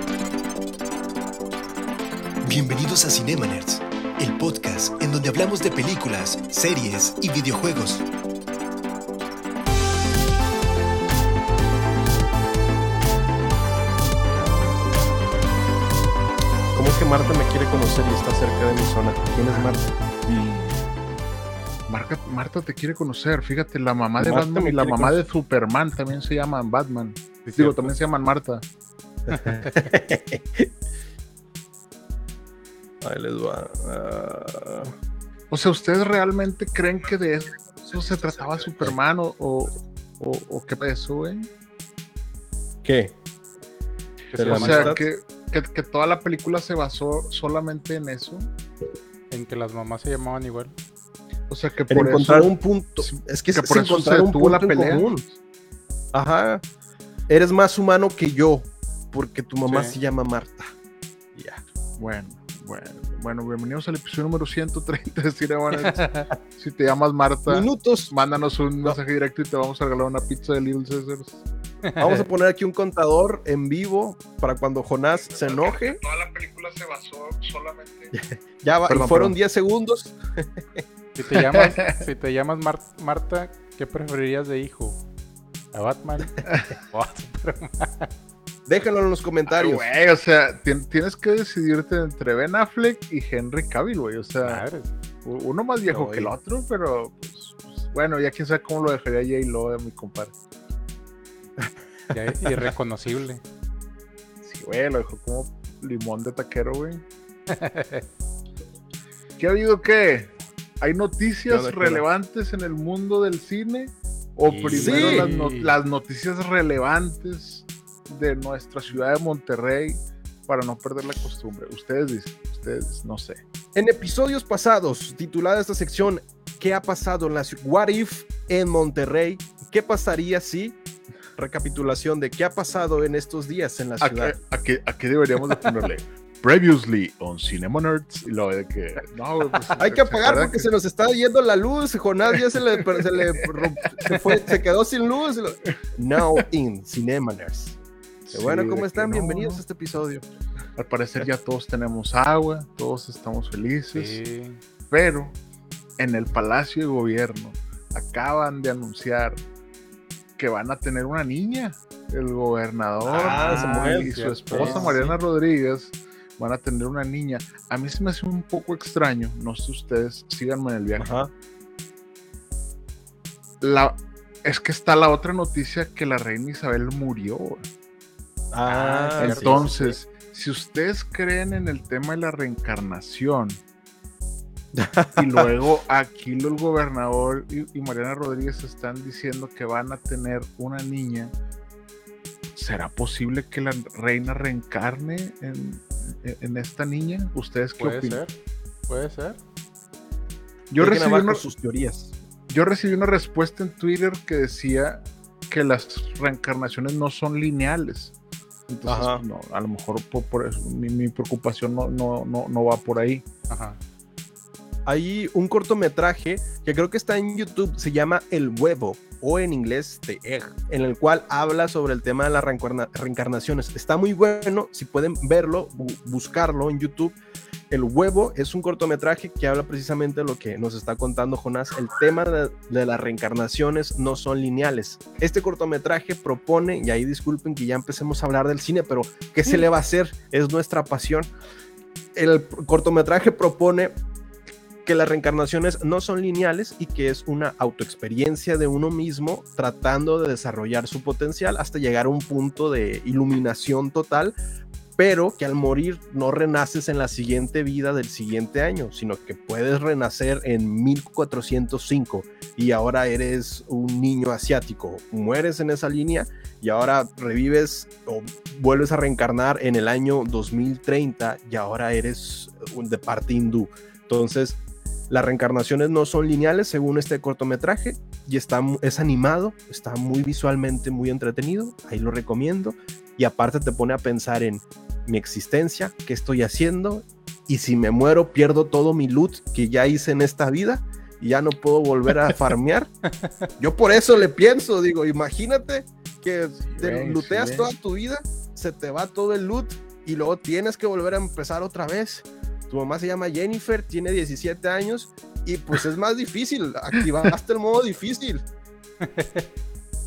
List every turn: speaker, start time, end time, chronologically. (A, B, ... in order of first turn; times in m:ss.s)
0:02.4-0:08.1 A
0:16.8-0:19.9 B
0:21.9-0:28.6 C
0:24.2-0:25.2 B
0:27.4-0:27.9 D
0:29.3-0:30.7 B
0:29.3-0:29.7 D
0:33.0-0:34.9 B
0:35.5-0:41.5 C
0:37.8-0:38.9 B
0:42.8-0:43.1 B
0:44.3-0:48.5 C
0:44.3-0:45.0 D
0:44.3-0:45.0 B
0:49.3-0:50.7 D
0:51.5-0:55.3 C
0:51.9-0:55.2 B
0:56.1-0:56.6 B
0:57.3-1:00.7 B
0:59.7-1:00.0 D
1:01.4-1:01.6 B
1:02.0-1:11.4 C
1:05.8-1:06.3 D
1:07.5-1:08.1 B
1:11.8-1:12.2 D
1:12.0-1:16.0 B
1:15.3-1:18.1 C
1:18.1-1:20.8 B
1:18.9-1:19.4 C
1:21.2-1:25.0 D
1:21.3-1:22.0 C
1:25.7-1:28.1 D
1:26.5-1:26.7 C
1:28.7-1:29.9 B
1:29.5-1:34.6 C
1:34.4-1:34.9 D
1:35.2-1:40.3 C
1:35.9-1:36.3 B
1:42.1-1:43.4 D
1:44.4-1:47.0 C
1:47.5-1:48.0 D
1:49.4-2:03.4 C
1:51.5-1:52.0 B
1:54.5-1:55.8 D
1:54.7-1:55.3 B
2:03.8-2:10.8 B
2:11.4-2:14.4 B
2:14.0-2:20.7 C
2:19.8-2:27.8 B
2:23.0-2:23.5 C
2:28.3-2:29.6 C
2:28.3-2:30.2 B
2:30.8-2:34.2 C
2:33.9-2:34.6 D
2:34.9-2:35.4 C
2:36.0-2:39.4 C
2:40.4-2:51.1 C
2:43.0-2:45.2 B
2:43.1-2:45.0 D
2:51.0-2:51.3 B
2:53.6-2:57.6 C
2:58.5-3:00.0 B
2:58.6-2:59.7 D
2:59.2-3:03.6 C
3:04.7-3:05.5 B
3:05.2-3:11.3 C
3:12.5-3:18.2 C
3:17.8-3:18.3 D
3:18.9-3:19.4 D
3:20.7-3:21.4 C
3:20.8-3:22.1 B
3:22.5-3:28.1 C
3:28.7-3:33.2 C
3:28.9-3:29.2 B
3:33.5-3:33.8 D
3:34.9-3:47.2 B
3:47.7-4:01.3 B
4:02.2-4:03.9 B
4:04.8-4:14.4 B
4:15.0-4:34.6 B
4:35.1-4:52.9 B
4:53.6-5:08.4 B
4:56.7-4:57.7 C
5:09.0-5:09.5 D